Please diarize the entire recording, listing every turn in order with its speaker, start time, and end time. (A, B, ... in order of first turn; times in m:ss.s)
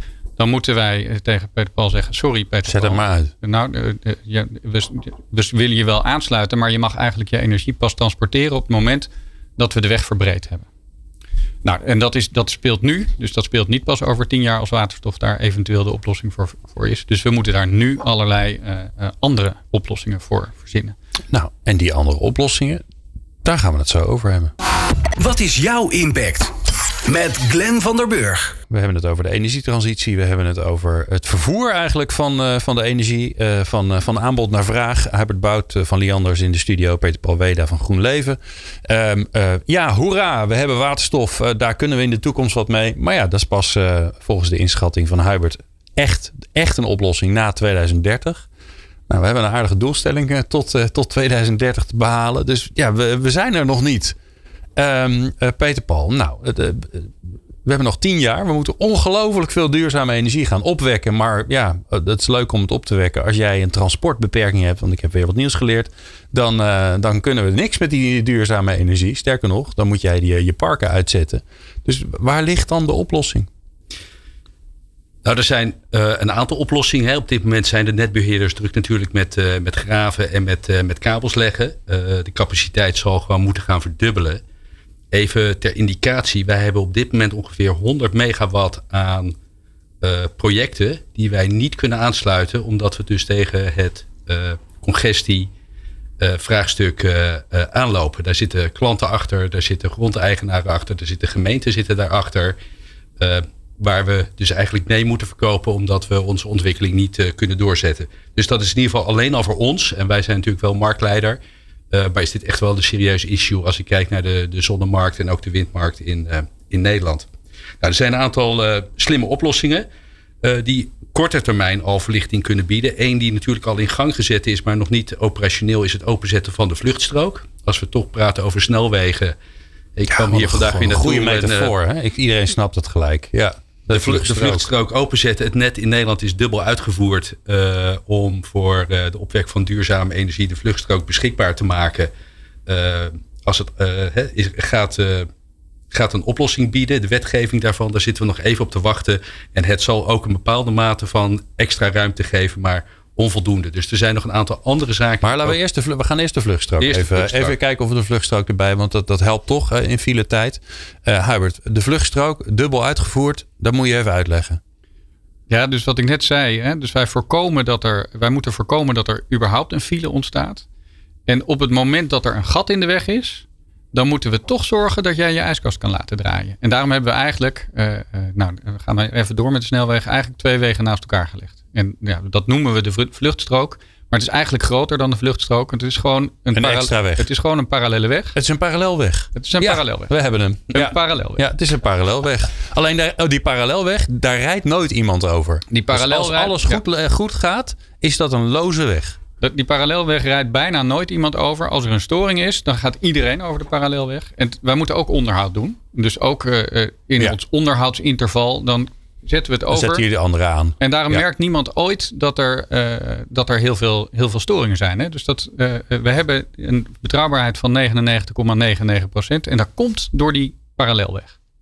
0:00.4-0:10.7 A
0:02.6-0:03.3 B
0:11.6-0:21.0 A
0:21.3-0:22.8 B
0:23.4-0:24.5 B
0:25.2-0:26.5 C
0:27.0-0:28.5 C
0:28.7-0:48.5 B
0:49.1-0:54.2 B
0:54.8-1:13.5 B
1:15.2-1:24.4 D
1:25.1-1:29.4 D
1:30.0-1:35.5 D
1:36.2-1:42.6 D
1:43.2-1:51.4 D
1:51.9-1:57.3 D
1:57.8-1:59.9 D
2:00.4-2:09.4 D
2:10.0-2:11.7 D
2:10.1-2:14.7 B
2:13.9-2:22.1 D
2:22.6-2:25.3 D
2:25.9-2:35.6 D
2:35.2-2:44.6 B
2:36.8-2:37.5 D
2:45.5-2:50.6 A
2:51.3-3:08.4 A
3:06.5-3:07.3 B
3:08.3-3:19.2 B
3:09.3-3:10.1 A
3:10.7-3:11.5 A
3:15.7-3:16.8 A
3:19.4-3:30.0 A
3:29.7-3:31.2 B
3:30.8-3:41.4 A